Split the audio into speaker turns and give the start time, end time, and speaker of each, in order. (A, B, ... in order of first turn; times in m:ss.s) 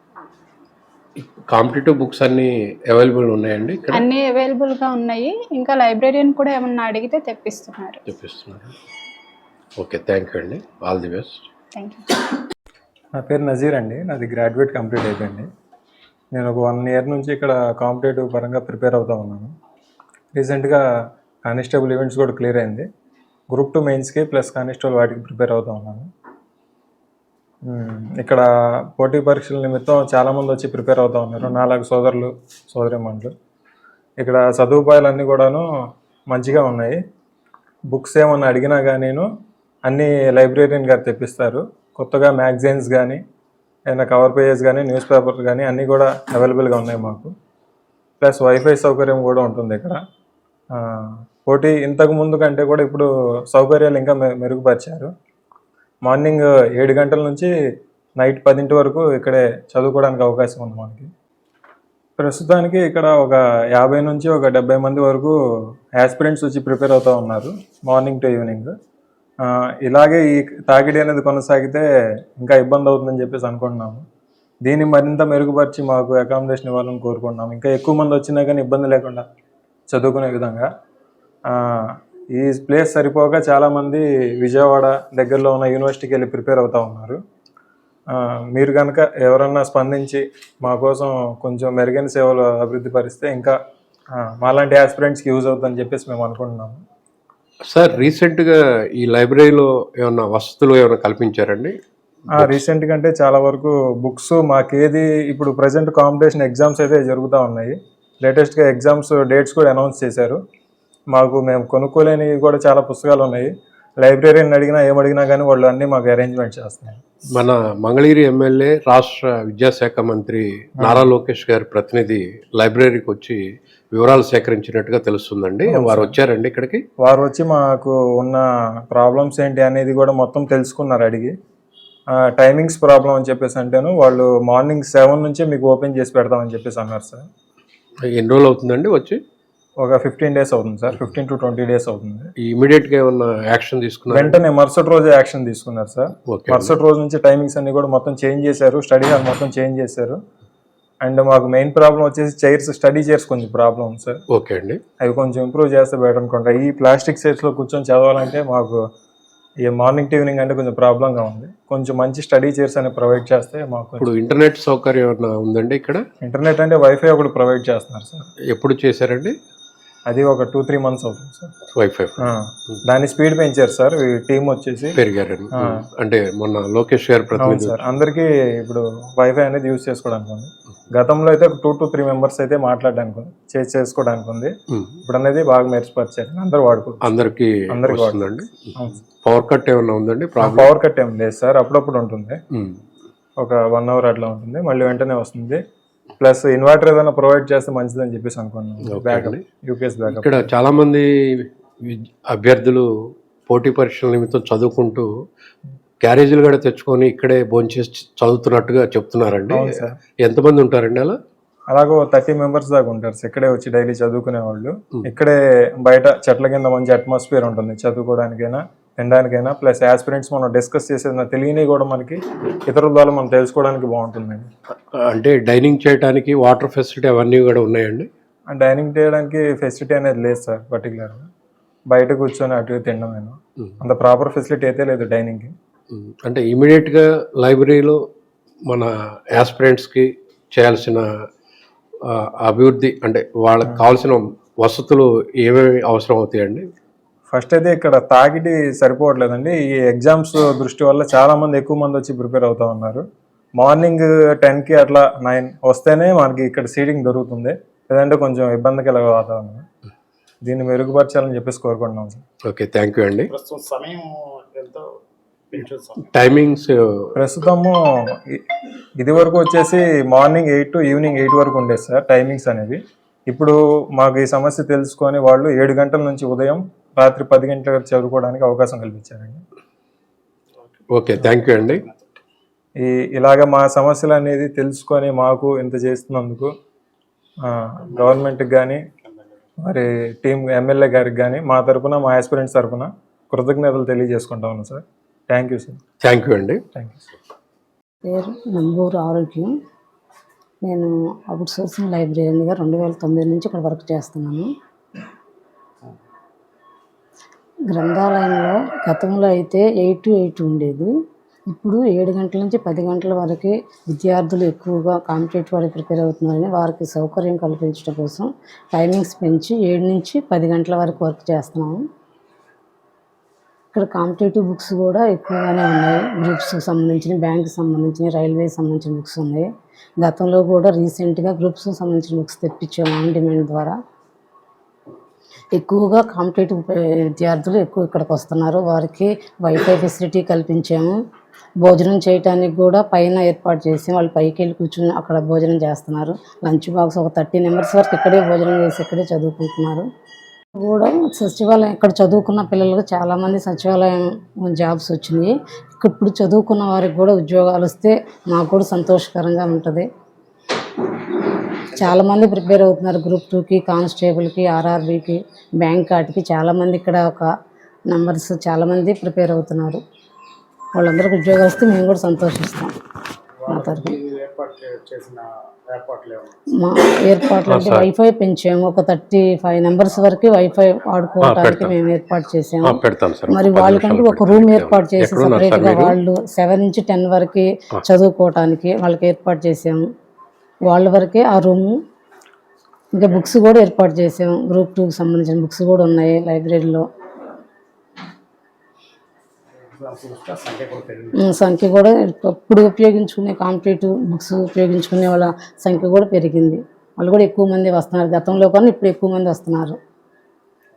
0:01.2-0:04.0 A
0:03.9-0:08.0 B
0:08.1-0:08.7 A
0:09.8-0:11.4 A
0:11.8-0:12.2 B
0:13.2-0:15.5 C
0:16.3-0:19.5 C
0:20.3-0:20.8 C
0:21.4-0:22.8 C
0:23.5-0:26.1 C
0:27.7-0:28.4 C
0:29.0-0:33.3 C
0:34.2-0:35.6 C
0:36.3-0:37.0 C
0:37.9-0:39.2 C
0:39.8-0:43.2 C
0:43.9-0:47.3 C
0:48.2-0:50.0 C
0:50.8-0:55.1 C
0:56.0-0:57.5 C
0:58.2-1:01.1 C
1:02.2-1:05.3 C
1:06.0-1:08.7 C
1:09.8-1:11.8 C
1:12.4-1:14.0 C
1:14.6-1:19.2 C
1:19.9-1:20.6 C
1:21.7-1:27.2 C
1:28.1-1:33.5 C
1:34.2-1:36.8 C
1:37.7-1:41.7 A
1:42.3-1:50.4 C
1:42.4-1:42.6 A
1:51.1-1:57.0 C
1:57.3-2:03.4 A
2:00.8-2:01.1 C
2:03.9-2:06.8 A
2:05.7-2:06.1 C
2:07.0-2:11.3 C
2:12.1-2:17.2 C
2:18.1-2:19.2 A
2:19.8-2:22.3 C
2:22.4-2:24.4 A
2:24.1-2:30.2 C
2:26.3-2:26.7 A
2:31.0-2:34.2 C
2:34.3-2:34.8 A
2:35.0-2:38.8 C
2:39.6-2:44.1 C
2:44.0-2:46.0 A
2:46.2-2:48.3 C
2:48.5-2:49.3 A
2:50.1-2:51.5 C
2:51.7-2:52.2 A
2:52.2-2:55.0 C
2:54.9-2:57.8 A
2:55.6-2:55.8 C
2:57.4-3:07.0 C
3:07.0-3:10.7 A
3:07.7-3:09.0 C
3:10.4-3:12.4 C
3:12.5-3:12.8 A
3:13.4-3:15.6 C
3:16.2-3:20.5 C
3:18.9-3:19.4 A
3:20.1-3:22.8 A
3:23.5-3:25.1 A
3:26.0-3:31.2 A
3:29.5-3:30.0 C
3:31.7-3:44.5 C
3:45.0-3:48.1 A
3:48.5-3:51.2 C
3:51.9-3:55.5 C
3:55.9-3:58.0 A
3:58.7-4:01.0 A
4:02.0-4:06.7 A
4:07.3-4:13.0 C
4:13.6-4:19.6 C
4:20.4-4:22.2 C
4:22.5-4:23.3 A
4:23.3-4:24.8 D
4:25.5-4:26.0 D
4:26.1-4:27.1 A
4:27.2-4:28.4 C
4:29.0-4:39.4 C
4:40.9-4:41.8 A
4:42.8-4:46.5 C
4:47.5-4:48.8 C
4:47.9-4:48.2 D
4:49.6-4:55.8 C
4:56.0-4:56.6 A
4:56.7-4:57.0 C
4:58.0-4:59.5 E
5:00.6-5:04.5 E
5:07.7-5:10.9 E
5:11.5-5:21.8 E
5:23.7-5:29.5 E
5:30.0-5:33.8 E
5:35.5-5:41.0 E
5:41.6-5:49.8 E
5:50.6-5:59.9 E
6:01.7-6:07.3 E
6:07.9-6:09.8 E
6:10.7-6:12.7 E
6:13.4-6:16.3 D
6:13.5-6:13.9 E
6:16.6-6:29.8 E
6:17.5-6:17.9 A
6:21.2-6:21.7 A
6:22.6-6:26.0 A
6:30.7-6:31.8 E
6:32.9-6:36.9 E
6:39.7-6:41.1 D
6:41.2-6:49.8 E